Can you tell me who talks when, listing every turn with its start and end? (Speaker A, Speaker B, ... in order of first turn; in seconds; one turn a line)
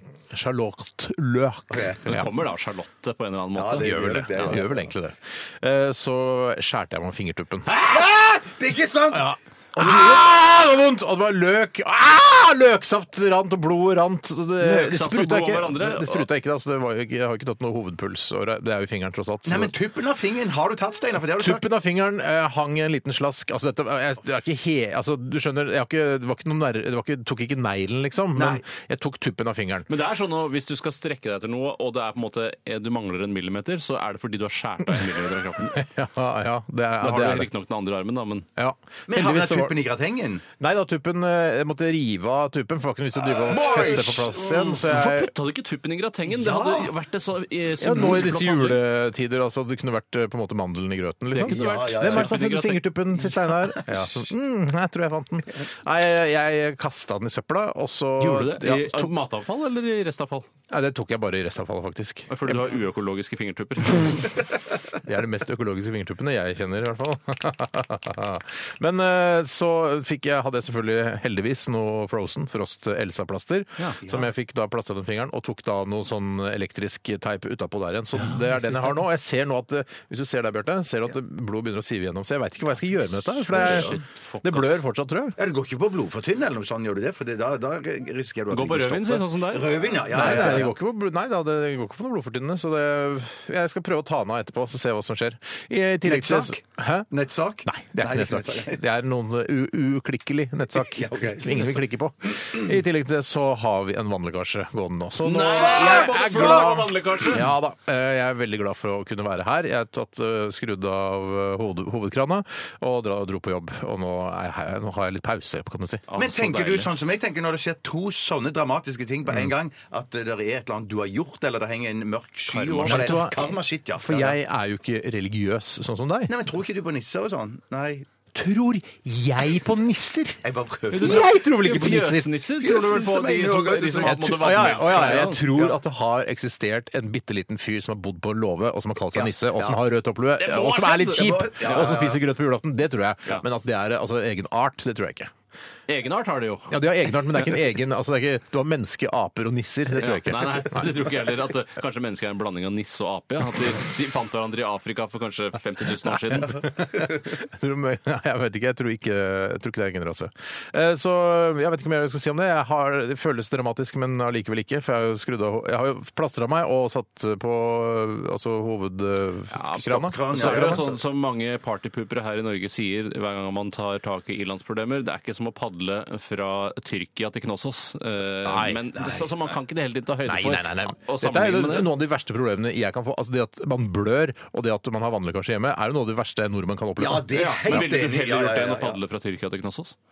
Speaker A: 0.3-2.3
Speaker B: 1.7-2.0
Speaker C: 2.0-4.6
Speaker B: 3.5-4.9
Speaker A: 3.8-8.0
Speaker B: 7.7-10.3
Speaker A: 9.1-19.7
Speaker C: 14.6-16.2
Speaker B: 19.4-21.6
Speaker A: 21.3-29.9
Speaker B: 28.3-28.6
Speaker C: 29.9-35.8
Speaker A: 35.6-37.5
Speaker C: 37.0-38.5
Speaker A: 38.5-39.8
Speaker B: 39.1-40.4
Speaker A: 40.6-45.3
Speaker B: 43.2-44.3
Speaker C: 43.5-48.8
Speaker B: 46.3-46.9
Speaker A: 47.8-59.1
Speaker C: 51.3-52.9
Speaker B: 51.4-52.4
Speaker B: 53.5-54.2
Speaker C: 58.2-60.5
Speaker A: 60.7-62.8
Speaker C: 62.3-64.3
Speaker A: 65.0-85.3
Speaker B: 74.0-74.3
Speaker C: 78.2-78.9
Speaker C: 83.5-84.8
Speaker B: 83.6-83.9
Speaker B: 85.4-90.7
Speaker C: 88.5-89.7
Speaker A: 90.1-97.1
Speaker B: 96.0-98.8
Speaker A: 97.6-116.0
Speaker B: 100.8-101.8
Speaker C: 105.2-107.5
Speaker B: 105.7-106.1
Speaker C: 116.1-116.9
Speaker B: 116.2-124.4
Speaker C: 122.5-123.2
Speaker A: 122.8-126.3
Speaker B: 126.3-128.1
Speaker A: 128.3-132.3
Speaker B: 130.4-131.3
Speaker C: 130.9-135.4
Speaker B: 132.6-135.8
Speaker A: 134.0-145.3
Speaker B: 139.1-139.8
Speaker C: 140.4-142.0
Speaker B: 141.1-142.2
Speaker C: 145.9-147.5
Speaker A: 146.7-150.9
Speaker C: 150.0-156.6
Speaker A: 156.4-170.8
Speaker B: 169.7-171.0
Speaker C: 170.3-181.9
Speaker A: 178.4-178.8
Speaker B: 178.9-179.5
Speaker A: 180.2-187.9
Speaker B: 187.0-189.0
Speaker C: 187.3-189.9